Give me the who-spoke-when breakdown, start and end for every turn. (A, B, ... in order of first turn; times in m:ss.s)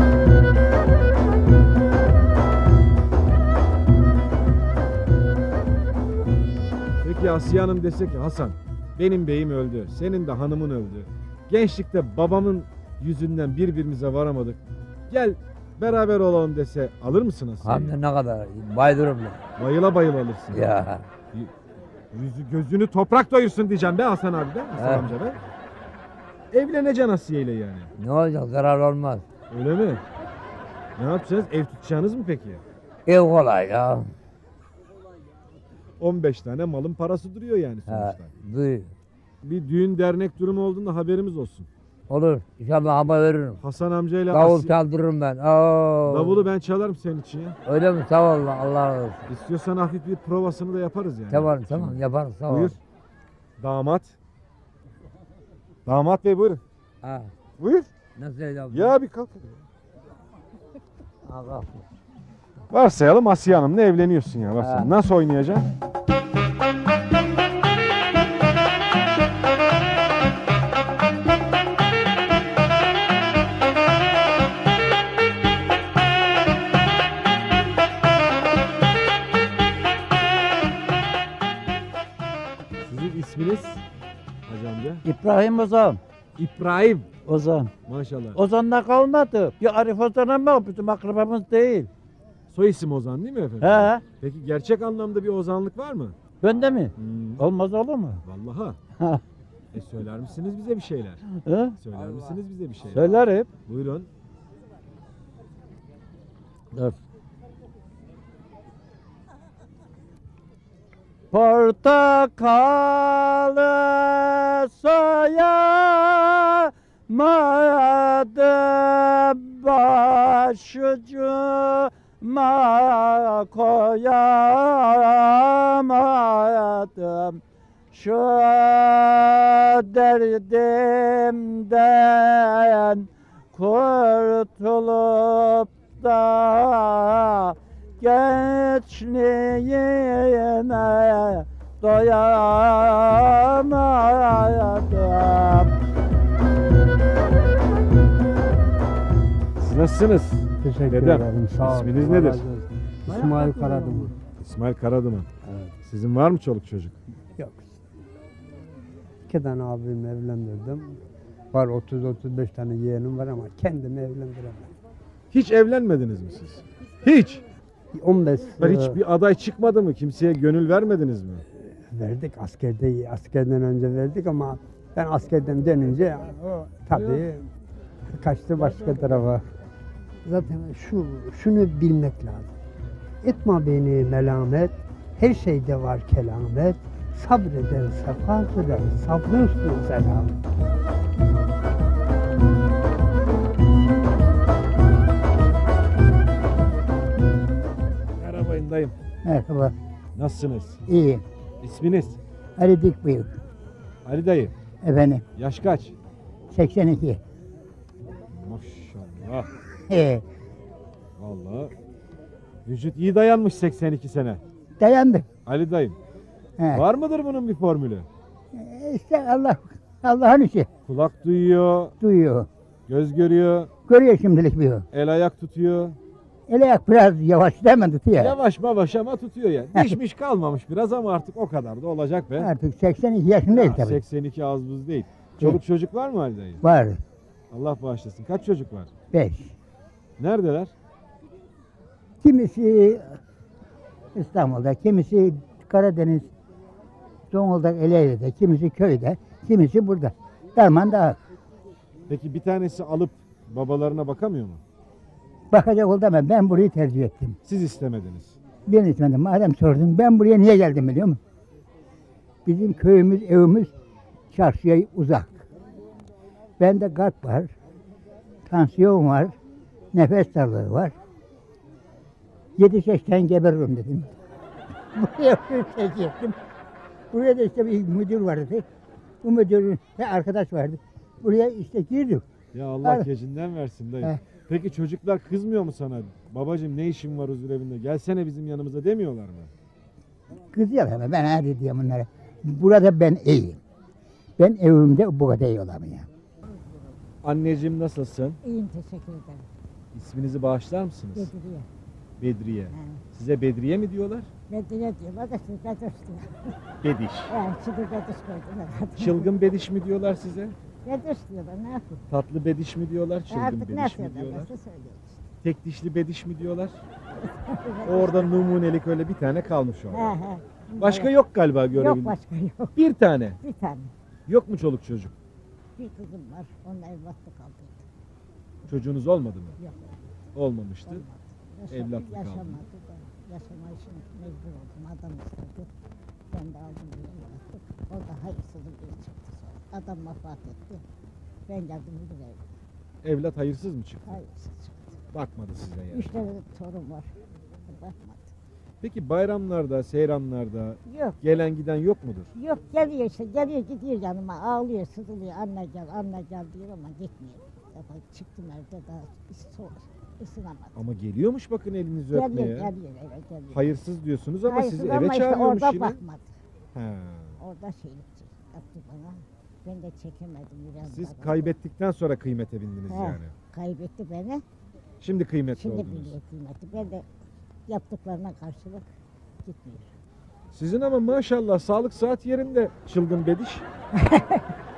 0:07.0-0:17.9 A
0:17.6-0:19.4 B
0:19.6-0:21.5 A
0:20.5-0:21.0 B
0:22.1-0:25.4 A
0:24.8-0:25.1 B
0:26.5-0:27.9 A
0:28.0-0:29.2 B
0:29.5-0:30.0 A
0:31.0-0:32.6 A
0:33.1-0:34.1 B
0:36.0-0:38.3 A
0:37.9-0:38.9 B
0:39.4-0:41.7 A
0:42.1-0:43.6 B
0:43.6-0:44.7 A
0:44.3-0:46.4 B
0:46.1-0:47.6 A
0:47.7-0:49.3 B
0:49.3-0:52.8 A
0:51.3-0:52.8 B
0:53.6-0:54.2 A
0:55.9-0:56.6 A
0:57.0-0:57.3 B
0:57.6-0:57.9 A
0:58.2-0:59.0 B
0:58.7-0:59.6 A
1:01.2-1:01.9 B
1:02.7-1:05.7 A
1:04.6-1:04.9 B
1:22.9-1:23.8 A
1:24.5-1:25.0 A
1:25.0-1:26.0 C
1:26.4-1:27.1 A
1:27.3-1:27.7 C
1:27.9-1:28.4 A
1:28.4-1:31.9 C
1:32.5-1:36.2 A
1:33.6-1:34.0 C
1:36.4-1:38.2 C
1:37.0-1:37.4 A
1:38.2-1:38.8 A
1:39.7-1:41.2 A
1:41.4-1:41.8 C
1:41.8-1:44.1 A
1:42.9-1:43.5 C
1:51.3-2:07.4 C
2:07.9-2:25.7 C
2:29.6-2:32.4 A
2:30.6-2:34.1 D
2:33.1-2:34.2 C
2:34.4-2:35.3 A
2:35.5-2:35.7 D
2:35.8-2:37.0 A
2:37.4-2:37.8 D
2:39.3-2:41.0 D
2:41.5-2:44.7 D
2:45.3-2:47.4 A
2:47.9-2:49.0 D
2:48.6-2:51.4 A
2:51.9-2:57.5 D
2:58.1-2:59.5 D
3:00.2-3:02.5 D
3:03.2-3:10.4 D
3:18.2-3:18.9 A
3:19.2-3:19.7 E
3:20.2-3:20.8 A
3:20.9-3:21.2 E
3:21.6-3:22.2 A
3:22.6-3:23.4 E
3:24.0-3:24.5 A
3:24.8-3:25.2 E
3:25.4-3:26.0 A
3:26.5-3:27.2 E
3:28.3-3:29.5 A
3:29.9-3:30.2 E
3:31.2-3:31.7 A
3:32.7-3:34.4 A
3:34.8-3:35.3 E
3:35.5-3:36.0 A
3:36.6-3:36.8 E
3:36.7-3:38.1 A
3:38.5-3:40.7 E
3:40.9-3:41.9 A
3:42.0-3:42.5 E
3:42.9-3:43.7 A
3:43.9-3:44.9 E
3:44.9-3:46.0 A
3:46.5-3:48.4 E
3:48.2-3:52.5 A
3:52.4-3:54.0 E
3:53.5-3:56.6 A
3:56.6-3:57.0 E
3:57.5-3:58.9 A
3:59.1-3:59.5 E
4:00.2-4:00.7 A
4:02.2-4:03.2 E
4:04.2-4:06.3 E
4:07.3-4:11.2 E
4:12.1-4:14.6 A
4:15.5-4:17.4 E
4:17.4-4:18.4 A
4:18.7-4:21.2 E
4:22.4-4:23.7 E
4:24.3-4:25.5 E
4:26.6-4:27.5 E
4:28.5-4:29.4 E
4:29.9-4:31.0 E
4:32.6-4:34.1 E
4:35.0-4:36.4 E
4:37.1-4:38.7 E
4:39.2-4:42.2 E
4:42.5-4:49.5 A
4:50.5-4:53.6 E
4:54.4-4:56.1 E
4:57.2-4:58.4 A
4:58.4-4:59.5 F
4:59.9-5:01.3 A
5:01.2-5:01.7 F
5:02.2-5:04.3 A
5:02.7-5:03.0 F
5:04.5-5:06.6 F
5:06.8-5:07.3 A
5:07.3-5:09.3 F
5:09.0-5:10.6 A
5:10.8-5:12.0 F
5:12.1-5:14.5 A
5:13.3-5:15.2 F
5:15.4-5:16.8 A
5:17.1-5:18.5 F
5:17.8-5:20.2 A
5:19.9-5:21.1 F
5:20.8-5:22.2 A
5:21.7-5:22.8 F
5:22.8-5:23.4 A
5:23.4-5:23.9 F
5:24.3-5:25.1 A
5:25.8-5:27.8 F
5:28.7-5:29.6 A
5:29.6-5:30.0 F
5:30.4-5:31.0 A
5:30.9-5:35.7 F
5:31.7-5:32.6 A
5:36.3-5:40.8 F
5:41.5-5:42.4 F
5:43.0-5:44.2 A
5:44.1-5:45.0 F
5:45.1-5:46.1 A
5:45.9-5:47.1 F
5:47.7-5:48.3 F
5:48.8-5:52.3 A
5:50.9-5:51.2 F
5:52.4-6:00.8 F
6:00.8-6:02.7 A
6:02.1-6:03.7 F
6:03.5-6:06.0 A
6:04.4-6:06.3 F
6:06.8-6:07.4 A
6:07.4-6:11.6 F
6:10.8-6:13.3 A
6:12.9-6:14.4 F
6:15.0-6:16.2 A
6:15.5-6:17.1 F
6:17.7-6:18.8 F
6:19.4-6:19.9 F
6:20.5-6:23.6 A
6:24.0-6:24.5 F